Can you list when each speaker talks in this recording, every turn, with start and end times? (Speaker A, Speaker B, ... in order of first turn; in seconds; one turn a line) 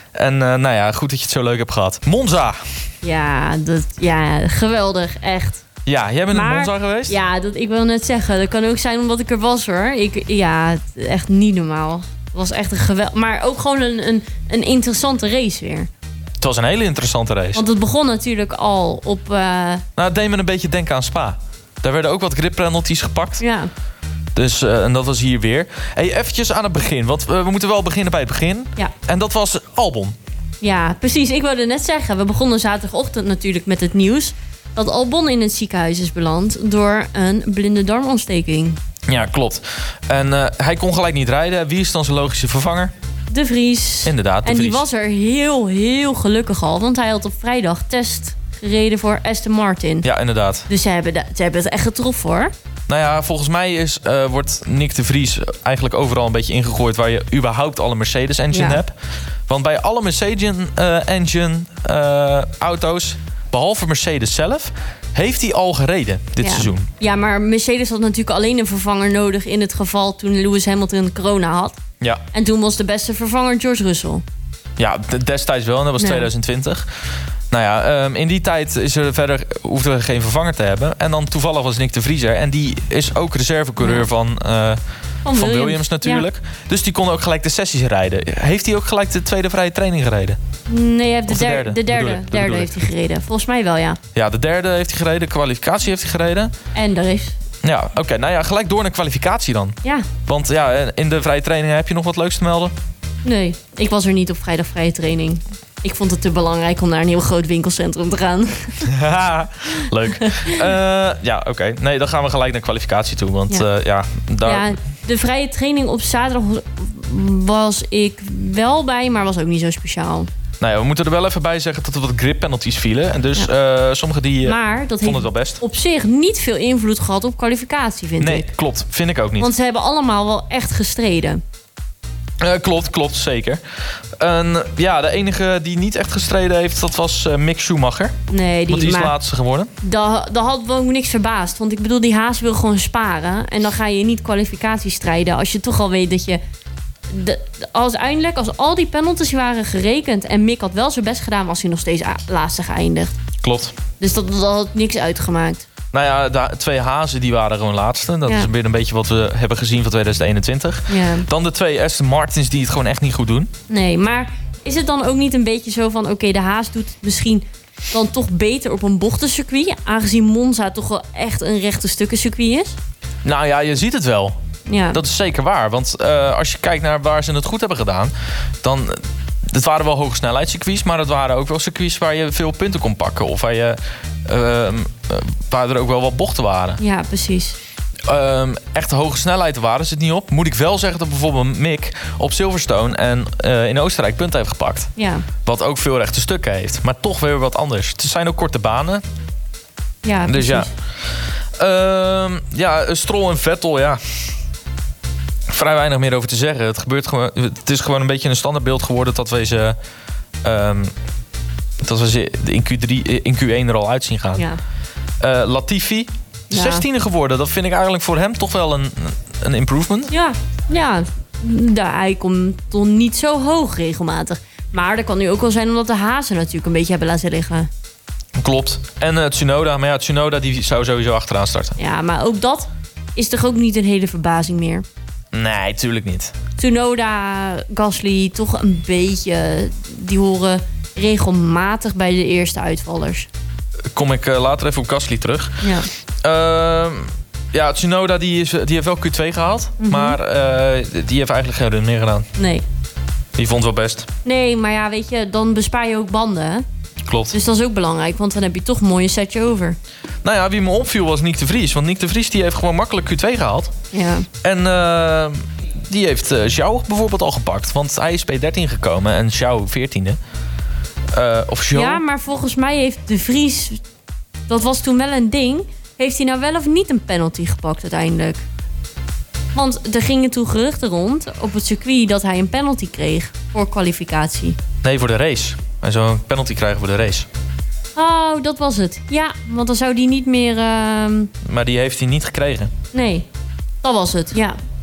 Speaker A: 0.1-2.8
Speaker B: 3.0-5.6
Speaker A: 5.9-7.1
Speaker B: 6.3-15.9
Speaker A: 16.4-17.6
Speaker B: 17.6-19.9
Speaker A: 20.0-23.4
Speaker B: 23.4-23.7
Speaker A: 24.4-30.2
Speaker B: 30.6-38.8
Speaker A: 39.1-42.9
Speaker B: 43.3-50.1
Speaker A: 44.0-44.8
Speaker A: 50.0-50.7
Speaker B: 50.7-52.5
Speaker A: 52.9-59.0
Speaker B: 58.5-58.8
Speaker A: 59.5-66.9
Speaker B: 66.4-71.8
Speaker B: 72.3-74.2
Speaker A: 74.8-76.9
Speaker B: 76.0-76.3
Speaker A: 77.5-84.8
Speaker B: 83.8-84.1
Speaker B: 85.2-86.3
Speaker A: 85.3-90.4
Speaker B: 90.7-94.0
Speaker A: 91.3-92.8
Speaker A: 94.2-96.5
Speaker B: 96.7-97.3
Speaker A: 97.6-102.7
Speaker B: 103.2-108.9
Speaker A: 108.8-114.8
Speaker B: 110.2-110.6
Speaker B: 114.5-120.3
Speaker A: 120.6-125.6
Speaker B: 124.4-128.5
Speaker A: 128.2-129.5
Speaker B: 129.4-131.4
Speaker A: 132.4-133.6
Speaker A: 134.2-138.2
Speaker B: 138.3-139.2
Speaker A: 138.7-139.7
Speaker B: 139.8-146.4
Speaker B: 147.1-153.1
Speaker A: 153.4-153.8
Speaker B: 154.0-155.7
Speaker A: 155.9-163.5
Speaker B: 160.9-161.3
Speaker B: 163.7-172.8
Speaker A: 173.2-174.4
Speaker B: 174.7-175.0
Speaker A: 174.9-186.8
Speaker B: 186.8-187.6
Speaker A: 188.1-194.9
Speaker B: 195.0-195.3
Speaker A: 195.4-199.0
Speaker B: 200.0-200.7
Speaker A: 200.3-200.7
Speaker A: 201.6-204.0
Speaker A: 205.5-209.8
Speaker A: 210.4-210.9
Speaker A: 211.8-214.5
Speaker A: 215.2-220.1
Speaker B: 216.5-216.8
Speaker B: 220.1-227.7
Speaker A: 228.4-231.8
Speaker B: 231.8-234.8
Speaker A: 235.3-236.3
Speaker B: 236.6-243.3
Speaker A: 243.9-245.7
Speaker B: 245.6-245.9
Speaker A: 246.2-252.3
Speaker B: 249.8-250.2
Speaker B: 252.4-252.7
Speaker A: 253.4-254.1
Speaker B: 254.2-256.6
Speaker A: 257.1-257.4
Speaker B: 257.3-259.8
Speaker A: 260.2-263.8
Speaker B: 263.9-264.3
Speaker A: 264.4-270.2
Speaker A: 271.1-272.0
Speaker B: 271.7-273.8
Speaker B: 274.5-278.4
Speaker B: 279.5-284.6
Speaker A: 284.8-287.3
Speaker B: 288.0-291.3
Speaker A: 291.4-292.7
Speaker B: 292.9-293.3
Speaker B: 293.8-294.6